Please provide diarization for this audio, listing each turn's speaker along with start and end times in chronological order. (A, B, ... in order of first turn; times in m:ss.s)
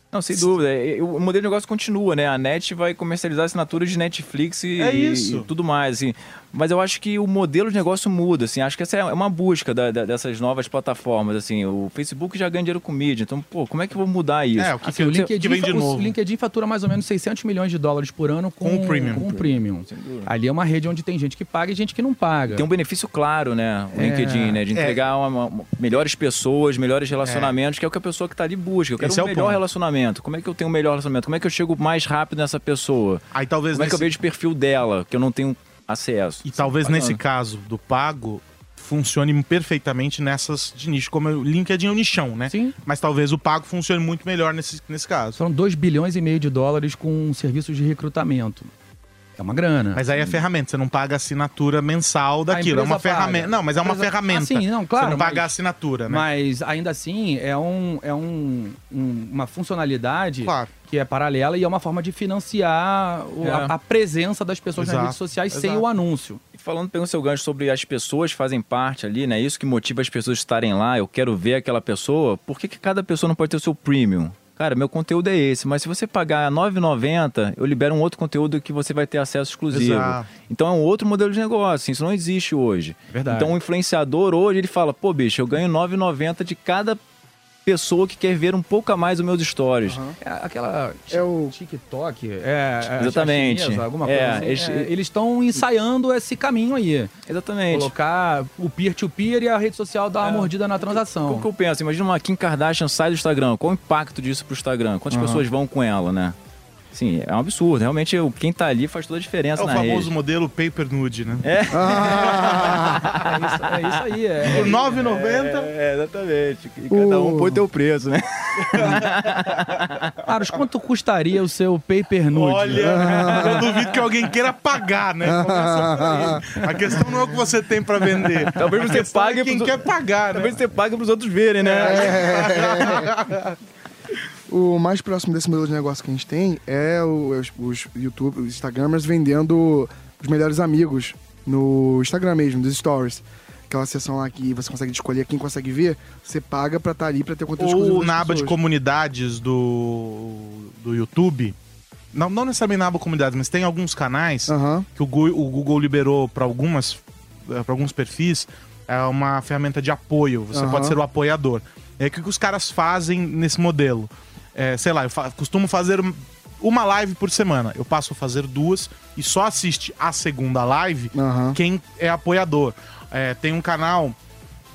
0:00.1-0:15.3 A
0:04.8-0:05.5 B
0:14.6-0:16.1 B
0:14.8-0:22.7 C
0:18.6-0:19.3 B
0:19.4-0:20.3 A
0:22.5-0:37.2 A
0:23.9-0:24.6 C
0:24.7-0:25.0 B
0:27.2-0:27.6 B
0:29.0-0:29.6 B
0:33.3-0:34.1 B
0:36.5-0:45.4 B
0:42.5-0:42.8 C
0:45.4-0:48.7 C
0:49.4-0:50.0 C
0:49.9-0:56.2 B
0:50.1-0:50.4 A
0:52.5-0:55.5 C
0:56.1-1:06.4 C
1:00.4-1:00.7 B
1:03.4-1:03.7 A
1:04.8-1:05.8 B
1:06.5-1:27.0 A
1:19.7-1:20.3 B
1:23.1-1:23.5 C
1:27.6-1:30.0 A
1:29.8-1:30.2 D
1:30.2-1:37.1 C
1:31.1-1:31.6 D
1:33.0-1:34.9 A
1:37.3-1:37.9 A
1:37.7-1:41.5 C
1:40.2-1:46.4 A
1:45.1-1:45.4 D
1:46.9-1:50.1 A
1:49.6-1:53.1 B
1:51.4-1:53.8 A
1:51.7-1:53.1 D
1:53.2-1:54.8 C
1:54.4-1:55.7 B
1:54.4-2:00.1 A
1:56.9-1:57.7 D
1:58.6-1:59.7 B
2:00.3-2:03.6 C
2:02.3-2:10.6 B
2:02.8-2:03.6 D
2:05.2-2:06.5 D
2:08.2-2:08.7 C
2:08.5-2:12.4 A
2:11.6-2:13.6 B
2:11.8-2:13.1 D
2:14.5-2:28.6 D
2:27.6-2:31.6 B
2:32.1-2:54.2 B
2:34.5-2:34.9 D
2:40.5-2:41.0 D
2:51.1-2:51.6 D